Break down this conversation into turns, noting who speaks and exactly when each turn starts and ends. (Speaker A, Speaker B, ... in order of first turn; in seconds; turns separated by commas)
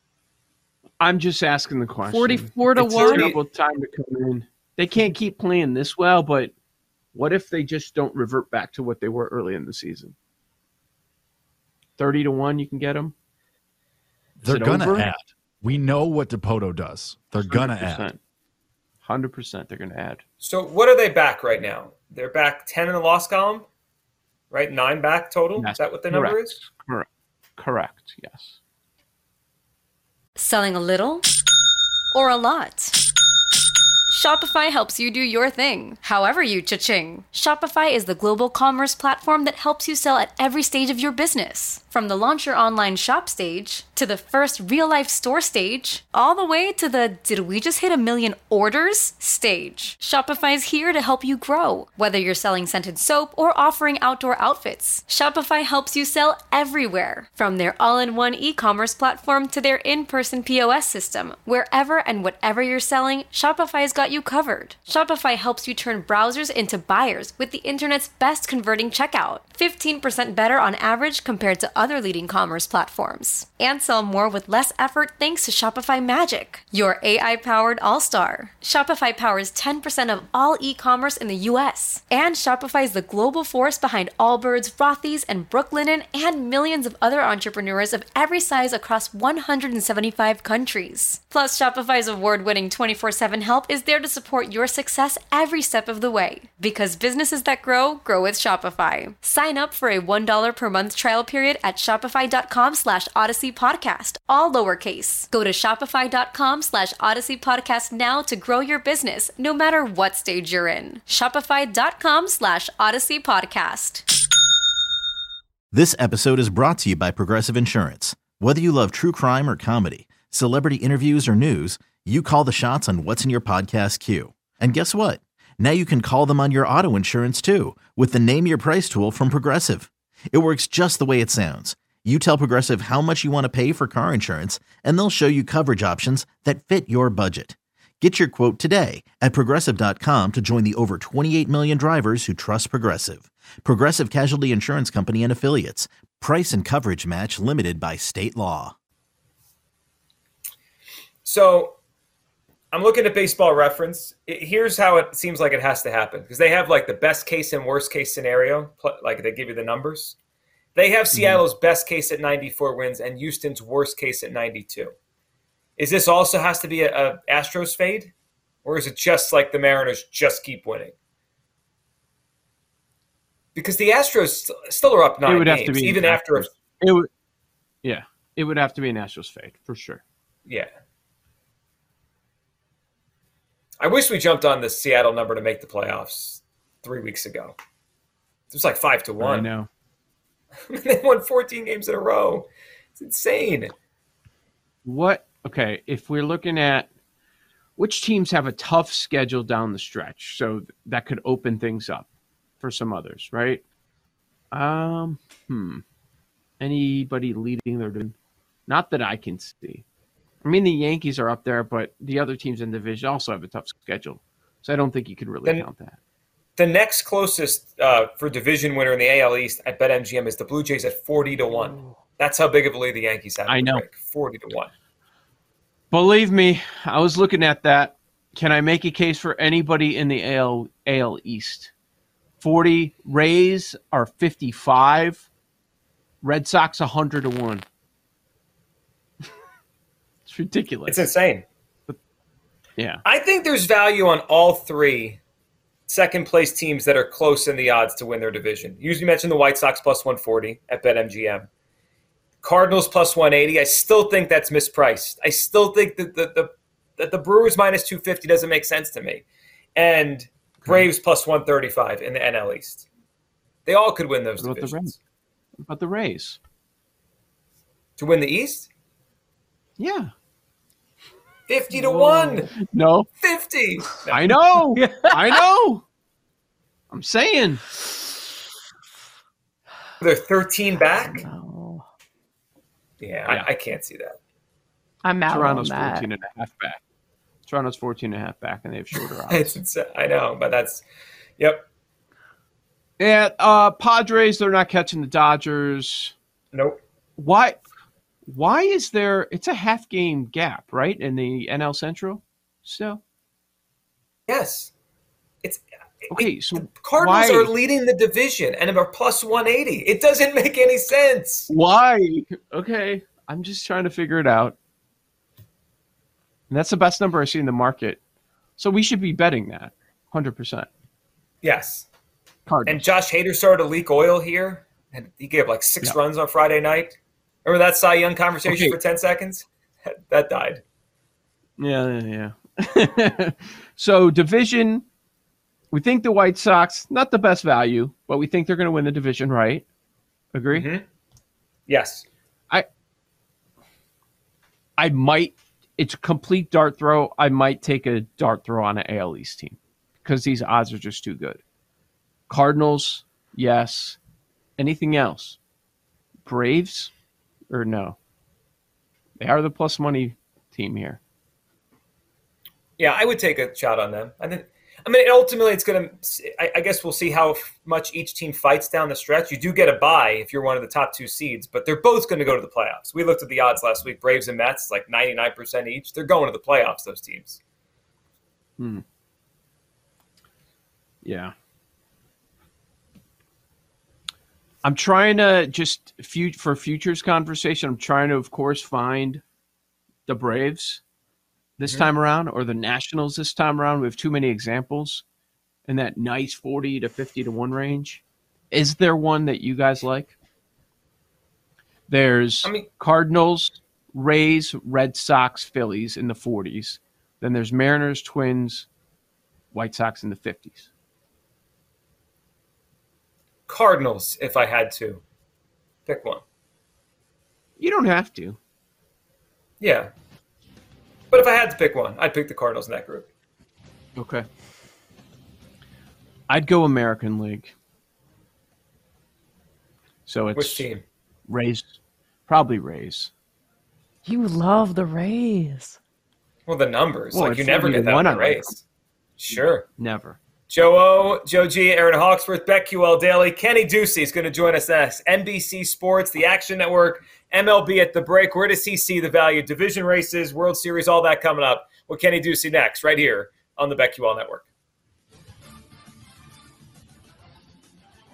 Speaker A: 1.0-6.5, Speaker B: 2.0-3.4, Speaker C: 2.8-3.4, Speaker A: 7.1-10.1, Speaker A: 12.0-13.1, Speaker D: 14.4-18.1, Speaker A: 14.4-15.1, Speaker A: 17.4-18.2, Speaker A: 19.0-20.2, Speaker C: 20.4-23.7, Speaker C: 24.5-26.5, Speaker A: 25.6-27.1, Speaker A: 27.6-28.6, Speaker E: 30.4-31.2, Speaker E: 32.1-33.0, Speaker E: 34.1-114.0, Speaker F: 115.7-148.7, Speaker C: 151.2-151.8, Speaker C: 152.7-160.2, Speaker C: 160.8-164.9, Speaker A: 161.2-161.4, Speaker C: 165.8-168.1, Speaker C: 168.7-170.9, Speaker C: 173.6-176.5, Speaker A: 175.3-177.1, Speaker A: 177.8-180.0, Speaker C: 183.8-187.6, Speaker C: 188.5-189.5, Speaker A: 189.2-189.7, Speaker C: 190.7-193.7, Speaker A: 194.9-196.9, Speaker A: 197.8-202.1, Speaker A: 202.6-203.6, Speaker A: 204.5-205.8, Speaker A: 206.6-208.2, Speaker A: 208.7-209.8, Speaker A: 210.4-216.0, Speaker C: 216.6-224.7, Speaker A: 223.5-223.8, Speaker A: 225.9-231.7, Speaker A: 232.4-235.3, Speaker A: 236.2-237.7, Speaker A: 240.2-241.1, Speaker C: 240.9-241.4, Speaker C: 243.1-245.2, Speaker C: 245.9-251.5, Speaker C: 252.4-259.2, Speaker C: 259.8-262.9, Speaker C: 263.7-264.9, Speaker A: 264.4-264.9, Speaker A: 265.6-266.4, Speaker C: 268.0-268.7, Speaker A: 269.8-270.1, Speaker C: 271.5-272.5, Speaker B: 271.7-272.3, Speaker A: 272.6-273.1, Speaker C: 273.2-274.4, Speaker A: 274.1-275.9, Speaker B: 274.8-275.5, Speaker A: 276.9-277.6, Speaker C: 280.0-281.2, Speaker B: 280.9-281.9, Speaker C: 283.0-284.2, Speaker B: 285.0-286.1, Speaker A: 285.3-286.8, Speaker A: 287.4-289.6, Speaker C: 289.3-290.8, Speaker C: 291.4-291.6, Speaker A: 293.0-296.1, Speaker C: 296.5-296.8, Speaker A: 297.2-297.6, Speaker A: 298.3-303.0, Speaker C: 304.3-304.7, Speaker C: 305.4-311.5, Speaker A: 306.1-307.5, Speaker A: 311.5-314.6, Speaker A: 316.5-318.0, Speaker A: 318.6-320.7, Speaker C: 321.4-321.9, Speaker A: 322.5-322.9, Speaker C: 322.7-329.5, Speaker A: 328.4-328.8, Speaker C: 330.1-330.6, Speaker A: 331.6-334.9, Speaker A: 335.7-339.6, Speaker A: 340.3-340.7, Speaker C: 340.5-340.8, Speaker C: 341.7-342.1, Speaker A: 344.8-351.4, Speaker A: 352.3-354.0, Speaker A: 354.6-355.4, Speaker A: 356.2-356.9, Speaker A: 357.5-358.0, Speaker A: 359.2-361.0, Speaker C: 362.8-377.4, Speaker A: 378.6-378.8, Speaker A: 381.0-381.3, Speaker A: 384.6-389.2, Speaker A: 390.1-390.8, Speaker A: 391.6-395.0, Speaker A: 395.7-400.1, Speaker A: 401.9-408.7, Speaker A: 409.5-410.7, Speaker C: 413.5-415.0, Speaker C: 415.9-416.2, Speaker A: 417.6-418.4, Speaker C: 419.6-419.9, Speaker C: 421.1-423.1, Speaker A: 424.0-424.2, Speaker A: 426.3-427.5, Speaker A: 430.1-430.7, Speaker C: 430.3-430.8, Speaker A: 431.3-433.1, Speaker B: 434.1-435.8, Speaker C: 436.5-438.6, Speaker A: 437.1-438.6, Speaker C: 439.2-439.7, Speaker A: 439.3-440.2, Speaker C: 440.5-454.5